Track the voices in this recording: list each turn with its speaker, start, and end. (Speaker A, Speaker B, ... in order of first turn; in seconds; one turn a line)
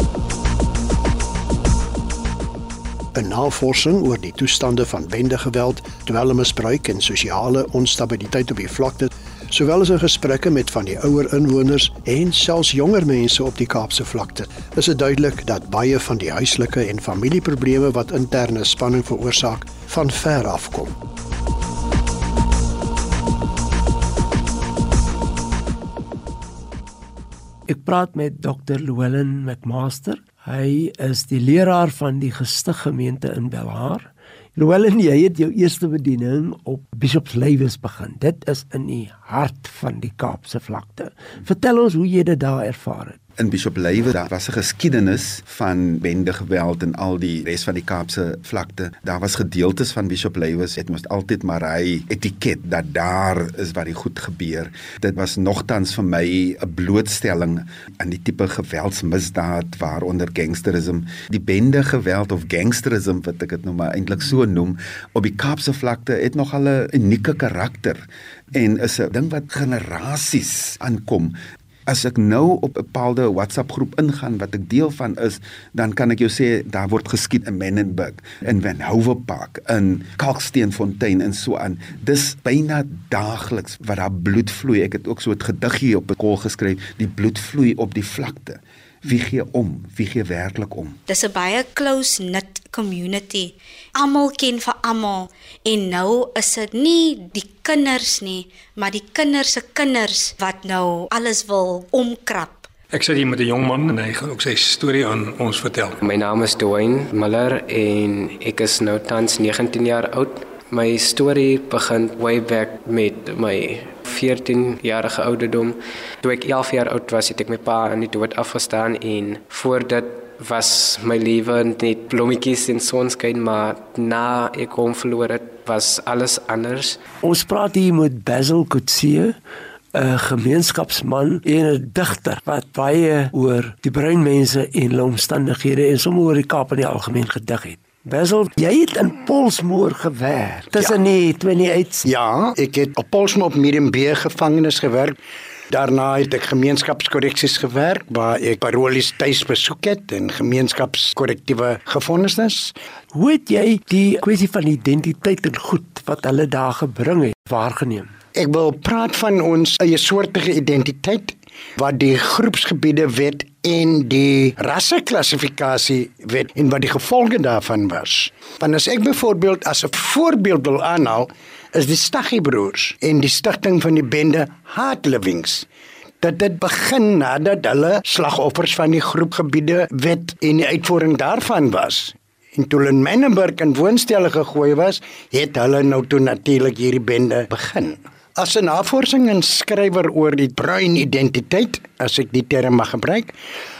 Speaker A: 3.1-20.9
Speaker B: 27.7-43.2
Speaker C: 43.4-68.0
Speaker C: 68.5-71.3
Speaker C: 71.9-91.0
Speaker D: 91.1-102.7
Speaker E: 102.9-106.0
Speaker F: 106.0-127.0
Speaker B: 127.2-129.3
Speaker B: 130.0-141.9
Speaker G: 142.0-145.2
Speaker G: 145.7-152.7
Speaker B: 153.2-158.1
Speaker G: 158.3-175.6
Speaker G: 176.2-193.3